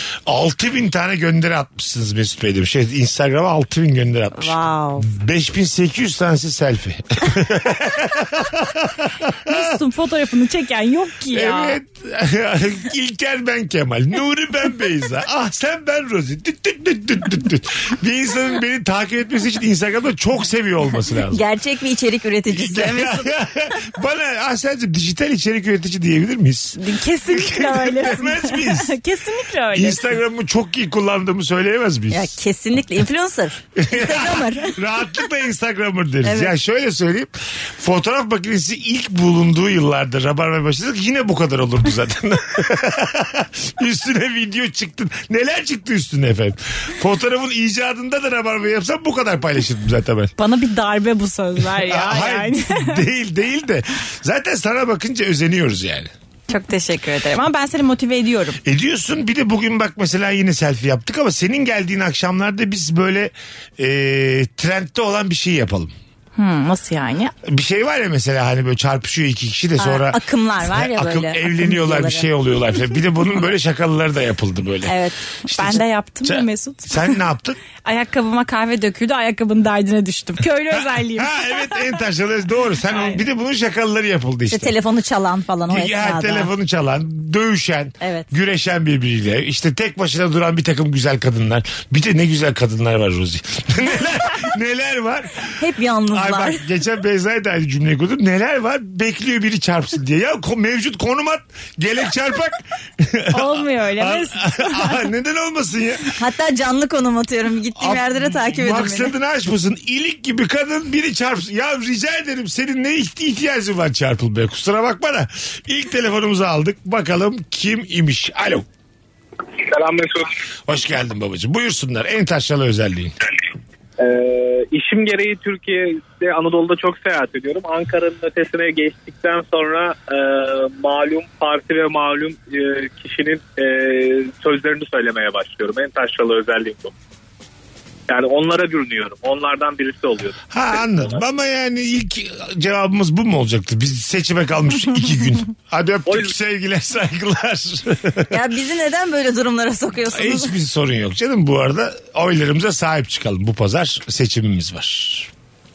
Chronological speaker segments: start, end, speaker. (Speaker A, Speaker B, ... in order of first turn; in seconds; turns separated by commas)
Speaker A: 0.3-9.6, Speaker B: 4.4-5.0, Speaker C: 9.4-11.8, Speaker A: 11.3-21.4, Speaker B: 21.3-23.3, Speaker A: 22.5-28.9, Speaker C: 26.8-30.1, Speaker A: 29.7-32.4, Speaker B: 32.1-34.8, Speaker A: 33.8-50.3, Speaker B: 36.2-36.5, Speaker C: 50.4-53.0, Speaker A: 51.8-56.1, Speaker C: 56.5-58.6, Speaker A: 58.6-65.9, Speaker C: 66.3-67.3, Speaker A: 67.4-74.9, Speaker B: 69.8-72.3, Speaker B: 74.8-75.2, Speaker A: 75.5-77.6, Speaker C: 75.5-77.1, Speaker C: 77.8-81.5, Speaker A: 81.1-84.8, Speaker C: 82.9-83.2, Speaker B: 84.5-86.5, Speaker A: 85.7-95.5, Speaker B: 88.0-88.3, Speaker B: 95.6-96.6, Speaker A: 96.1-106.1, Speaker C: 103.3-105.0, Speaker B: 106.0-109.1, Speaker A: 107.8-118.7, Speaker D: 119.6-120.2, Speaker A: 120.7-123.2, Speaker D: 124.0-136.9, Speaker D: 138.1-140.3, Speaker A: 140.5-148.4, Speaker B: 148.3-150.5, Speaker A: 150.1-155.3